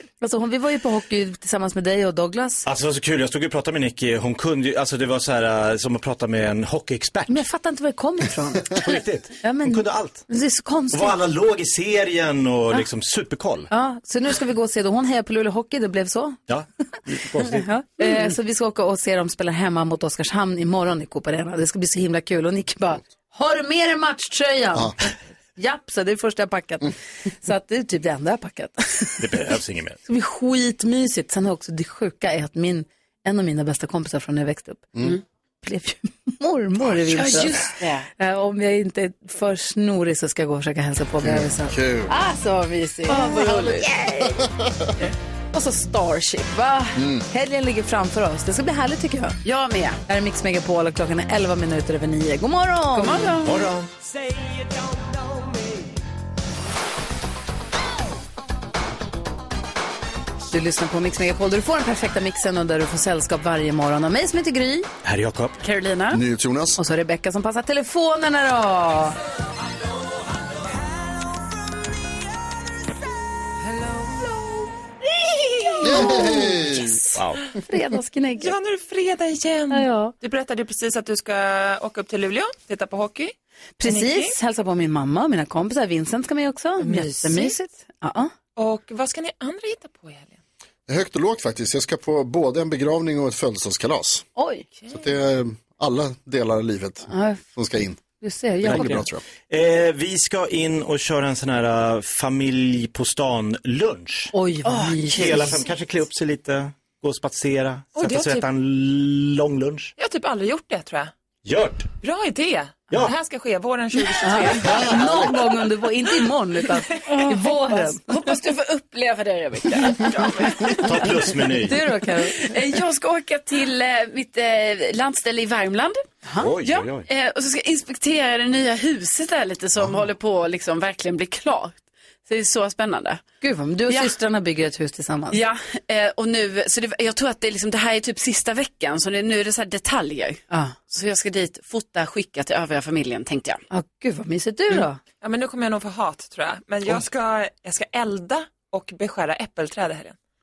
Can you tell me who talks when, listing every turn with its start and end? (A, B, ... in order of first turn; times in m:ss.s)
0:00.2-0:02.6 A
0:02.7-0:07.4 B
0:07.3-0:08.9 A
0:08.8-0:10.2 B
0:09.4-0:11.2 A
0:10.9-0:13.7 B
0:13.7-0:16.4 A
0:16.5-0:17.7 B
0:17.5-0:29.4 A
0:29.2-0:30.0 B
0:30.1-0:34.9 A
0:35.6-0:44.5 A
0:37.1-0:38.1 C
0:41.2-0:42.1 D
0:43.1-0:43.9 C
0:44.2-0:44.9 D
0:45.5-0:49.4 A
0:47.0-0:47.3 D
0:49.4-0:50.0 C
0:50.1-0:53.3 A
0:52.9-0:53.6 C
0:53.4-0:53.9 B
1:00.5-1:04.9 A
1:05.0-1:05.6 B
1:05.6-1:06.2 C
1:06.1-1:06.8 D
1:06.8-1:09.2 A
1:15.8-1:17.0 D
1:15.9-1:16.5 A
1:15.9-1:16.8 C
1:17.7-1:18.5 A
1:18.4-1:24.4 E
1:19.7-1:20.1 A
1:23.8-1:28.3 A
1:27.0-1:27.5 E
1:28.6-1:30.4 E
1:30.9-1:34.3 D
1:34.4-1:34.7 A
1:34.9-1:38.0 D
1:37.1-1:37.4 A
1:38.2-1:39.0 A
1:38.6-1:39.2 D
1:38.6-1:44.3 B
1:44.3-1:45.6 A
1:44.6-1:45.2 C
1:45.1-1:49.9 B
1:48.0-1:48.5 E
1:50.0-1:51.1 E
1:51.4-1:51.9 B
1:52.0-1:54.7 E
1:54.2-1:58.0 A
1:54.6-1:55.4 D
1:57.1-2:01.0 C
2:00.8-2:01.8 B
2:01.6-2:02.5 A
2:02.3-2:06.0 C
2:06.3-2:06.5 A
2:06.4-2:07.1 B
2:06.6-2:13.2 C
2:13.4-2:15.4 A
2:15.3-2:23.6 C
2:23.7-2:25.0 A
2:25.2-2:30.2 E